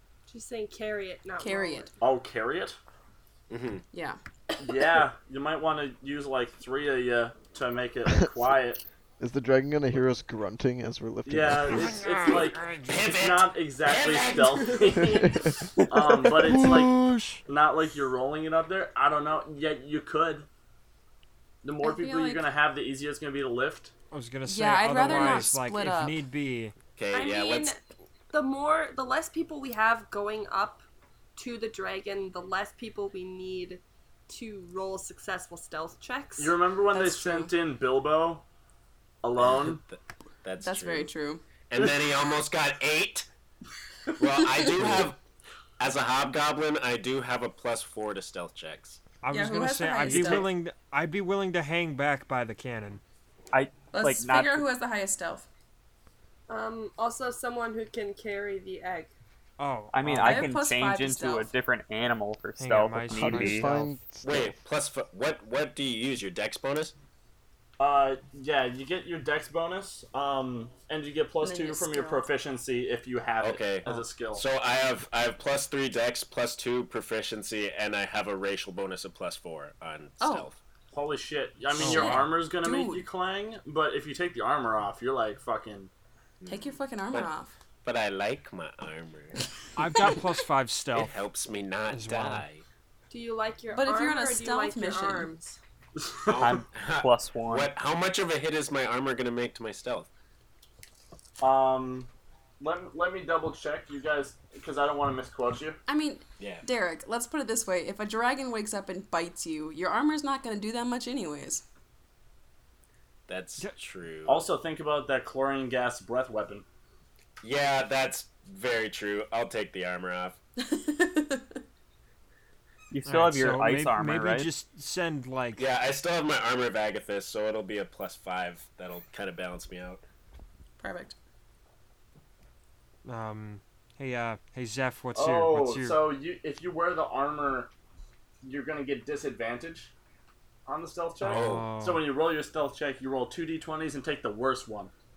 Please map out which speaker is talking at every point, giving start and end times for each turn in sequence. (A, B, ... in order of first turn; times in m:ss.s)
0:00.3-0:02.0 A
0:01.4-0:01.9 B
0:02.0-0:02.8 C
0:03.5-0:03.8 D
0:03.9-0:04.2 B
0:04.6-0:08.8 C
0:09.2-0:12.0 E
0:11.2-0:17.0 C
0:11.8-0:13.0 F
0:12.9-0:15.3 D
0:16.1-0:17.3 E
0:17.5-0:20.5 C
0:21.6-0:23.9 C
0:21.8-0:22.4 B
0:24.1-0:26.7 F
0:24.5-0:26.2 B
0:27.0-0:27.7 D
0:27.1-0:27.8 A
0:28.3-0:30.8 A
0:31.4-0:36.6 A
0:36.4-0:38.4 C
0:36.9-0:37.5 B
0:39.2-0:39.8 C
0:39.6-0:41.1 D
0:40.6-0:41.4 B
0:41.7-0:43.3 D
0:44.2-0:45.2 D
0:44.4-0:45.0 B
0:45.8-0:49.0 D
0:49.2-0:53.0 F
0:49.3-0:50.5 B
0:50.1-0:50.5 G
0:53.5-0:54.7 G
0:53.9-0:55.5 B
0:56.5-0:59.1 A
0:59.6-1:00.5 F
0:59.9-1:03.7 G
1:00.2-1:01.5 B
1:02.6-1:03.9 F
1:03.2-1:04.6 E
1:04.2-1:06.9 D
1:07.8-1:14.4 C
1:11.4-1:12.3 B
1:13.4-1:20.6 D
1:20.2-1:20.5 B
1:20.9-1:25.9 C
1:21.8-1:22.4 F
1:21.8-1:23.1 B
1:26.4-1:27.3 D
1:26.5-1:27.5 B
1:27.8-1:29.4 D
1:29.8-1:31.1 F
1:30.9-1:32.6 D
1:31.9-1:32.4 F
1:33.1-1:35.6 A
1:33.7-1:35.3 B
1:36.0-1:36.4 C
1:36.3-1:40.1 D
1:36.4-1:37.7 G
1:41.4-1:45.8 C
1:45.9-1:51.6 B
1:46.4-1:46.6 D
1:53.3-1:54.5 D
1:54.3-1:56.6 C
1:57.4-2:00.4 D
2:00.6-2:01.6 B
2:02.9-2:04.5 G
2:03.1-2:05.6 F
2:05.6-2:10.0 D
2:10.8-2:11.2 B
2:13.0-2:16.0 F
2:15.1-2:17.7 C
2:18.4-2:19.9 C
2:20.7-2:24.9 C
2:21.2-2:22.1 F
2:21.3-2:21.7 D